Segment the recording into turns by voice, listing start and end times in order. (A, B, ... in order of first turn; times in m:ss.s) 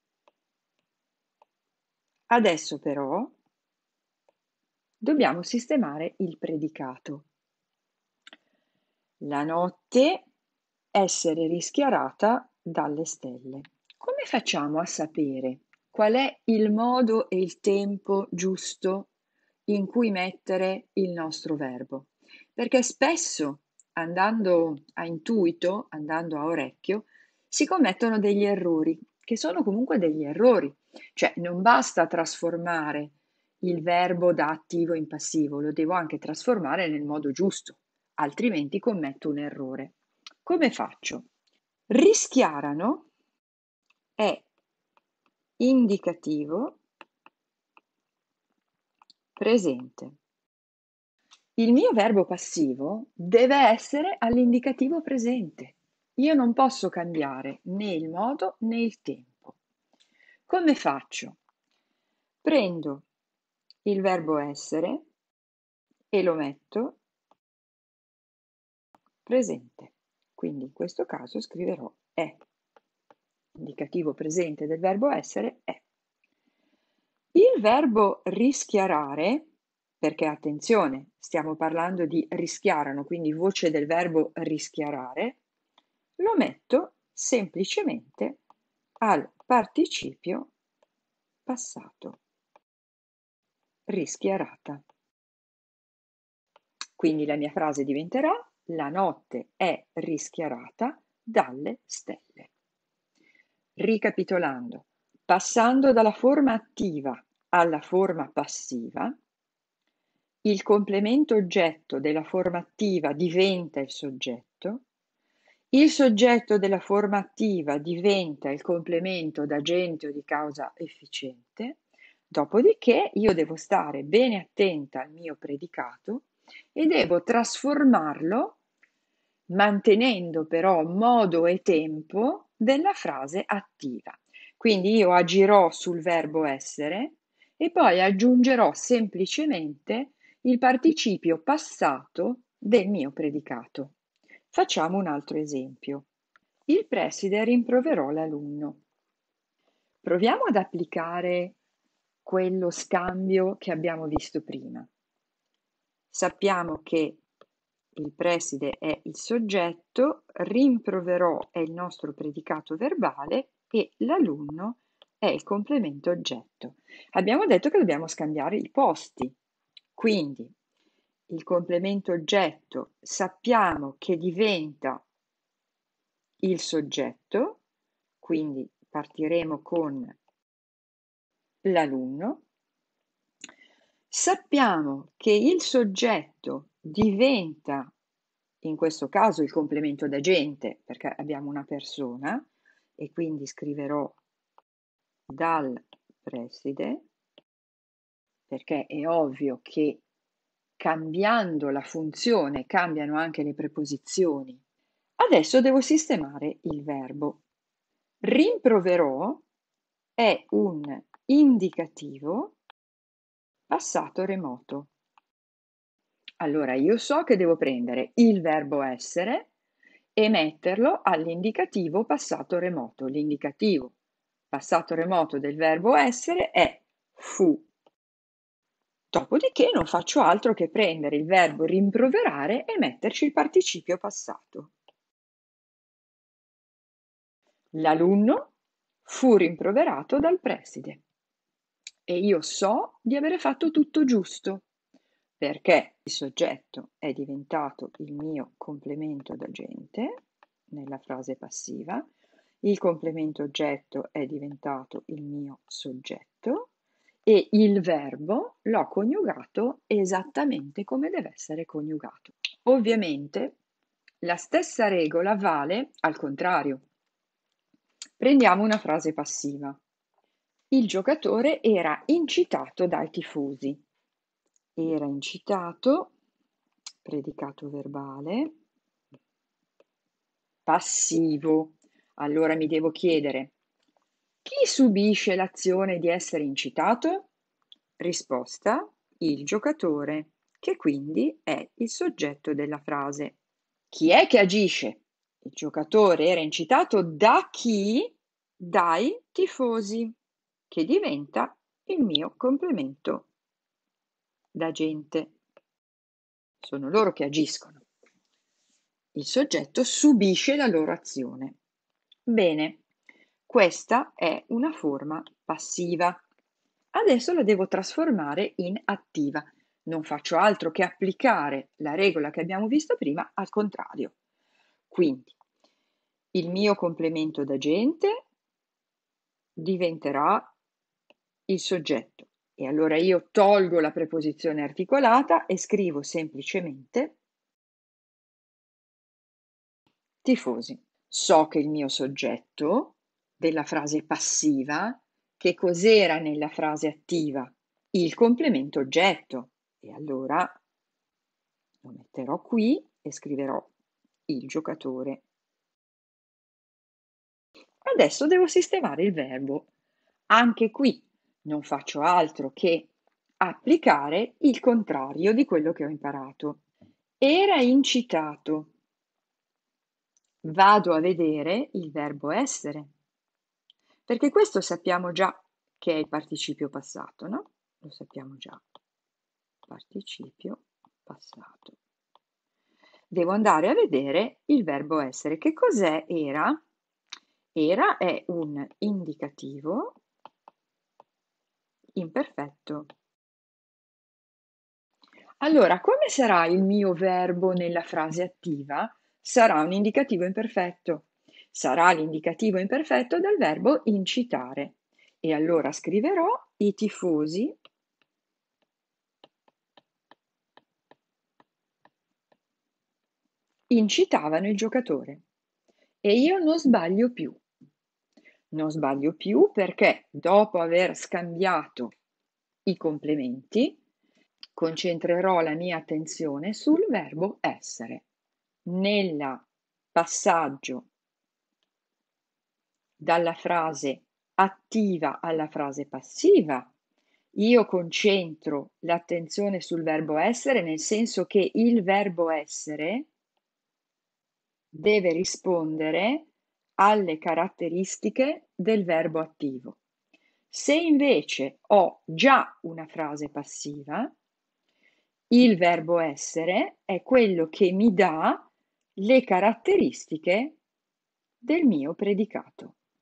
0:02.3-0:03.3 A
0:05.0-0:07.3 A
0:09.2-0:10.2 A
0:10.9-0:19.1 A
0:19.7-0:41.3 A
0:41.9-0:43.1 A
0:44.2-0:44.5 A
0:45.6-0:46.8 A
0:49.4-0:50.2 A
0:51.6-0:59.6 A
1:00.5-1:01.4 A
1:02.4-1:03.0 A
1:03.8-1:05.0 A
1:06.1-1:07.0 A
1:09.2-1:12.4 A
1:13.5-1:15.8 A
1:17.3-1:19.5 A
1:20.0-1:25.4 A
1:26.2-1:28.4 A
1:29.0-1:30.5 A
1:31.4-1:32.2 A
1:33.9-1:34.8 A
1:37.0-1:42.5 A
1:43.8-1:49.1 A
1:50.4-1:54.8 A
1:55.7-2:01.8 A
2:02.3-2:08.6 A
2:09.5-2:24.0 A
2:24.5-2:26.0 A
2:26.7-2:28.8 A
2:30.0-2:31.6 A
2:32.2-2:34.9 A
2:36.1-2:37.2 A
2:38.0-2:49.4 A
2:49.9-2:50.5 A
2:51.3-2:55.0 A
2:56.4-2:57.6 A
2:58.2-3:00.2 A
3:01.6-3:02.4 A
3:04.1-3:07.9 A
3:08.6-3:14.2 A
3:15.3-3:17.0 A
3:18.5-3:20.0 A
3:20.8-3:24.6 A
3:25.2-3:27.4 A
3:28.2-3:29.4 A
3:30.2-3:32.6 A
3:33.7-3:34.9 A
3:36.4-3:39.5 A
3:40.2-3:43.9 A
3:44.5-3:47.7 A
3:49.1-3:54.7 A
3:57.7-3:58.5 A
3:59.0-4:01.0 A
4:02.1-4:04.6 A
4:05.4-4:10.1 A
4:10.7-4:12.1 A
4:12.6-4:16.7 A
4:17.2-4:23.6 A
4:24.2-4:26.8 A
4:28.2-4:29.8 A
4:30.7-4:33.8 A
4:34.8-4:36.1 A
4:37.0-4:38.5 A
4:40.6-4:43.5 A
4:44.4-4:47.3 A
4:48.0-4:53.4 A
4:53.9-5:00.1 A
5:00.7-5:03.3 A
5:04.5-5:05.3 A
5:06.6-5:07.8 A
5:09.1-5:11.6 A
5:12.3-5:12.8 A
5:13.5-5:16.2 A
5:16.9-5:24.1 A
5:24.9-5:25.3 A
5:26.3-5:28.2 A
5:29.6-5:30.5 A
5:31.5-5:37.2 A
5:40.2-5:50.5 A
5:51.8-5:53.7 A
5:54.3-5:55.2 A
5:57.8-5:59.7 A
6:00.3-6:06.6 A
6:07.2-6:08.7 A
6:10.4-6:12.9 A
6:14.1-6:18.6 A
6:19.7-6:21.8 A
6:23.1-6:26.6 A
6:27.5-6:30.0 A
6:32.0-6:32.9 A
6:35.4-6:47.6 A
6:53.7-6:55.2 A
6:56.0-6:57.4 A
6:58.5-7:01.9 A
7:02.6-7:03.8 A
7:04.6-7:08.0 A
7:08.6-7:10.9 A
7:13.0-7:16.7 A
7:17.3-7:23.1 A
7:24.7-7:29.8 A
7:30.5-7:34.1 A
7:35.3-7:40.6 A
7:41.4-7:42.8 A